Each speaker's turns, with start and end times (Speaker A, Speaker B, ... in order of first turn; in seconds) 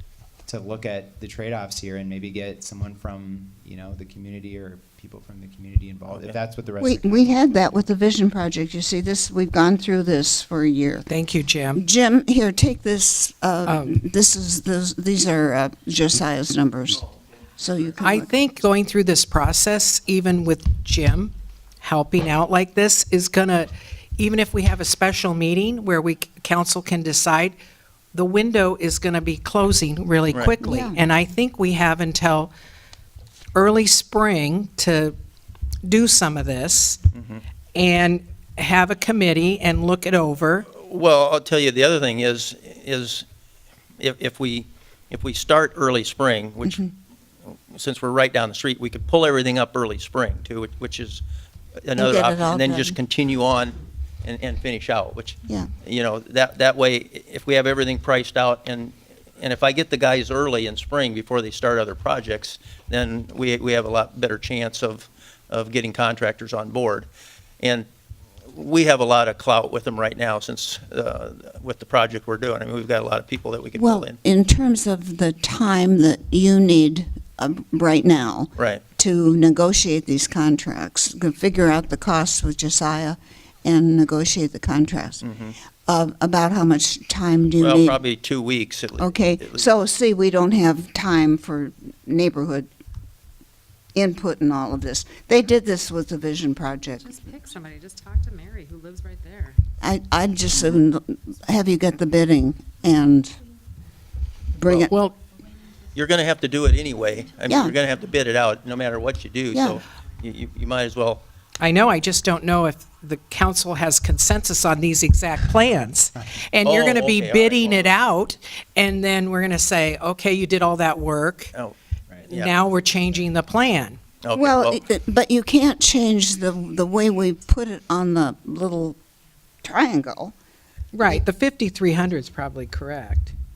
Speaker A: 0.5-7.5
Speaker B: 6.1-6.4, 37.1-37.4, 40.7-43.2, 44.0-46.9, 47.7-51.2, 51.8-67.1, 67.6-67.9, 68.5-74.2, 78.6-78.8, 85.2-85.6, 87.6-89.7, 106.0-111.2, 116.6-118.0, 122.3-122.6, 124.2-124.8
Speaker C: 6.8-11.1, 11.8-17.1, 17.6-18.3, 30.6-31.0, 52.0-53.0, 73.8-85.2, 85.9-88.0, 89.0-92.7, 94.0-97.2, 99.8-103.3, 104.6-104.9, 107.5-107.8, 109.5-109.8, 124.3-129.0, 129.6-130.3
Speaker D: 11.1-11.8, 13.7-14.0, 18.0-27.6, 28.1-32.5, 33.5-35.2, 35.9-37.0, 37.8-40.7, 104.9-105.2, 111.6-121.5, 122.3-124.0, 130.9-133.3
Speaker E: 97.0-99.6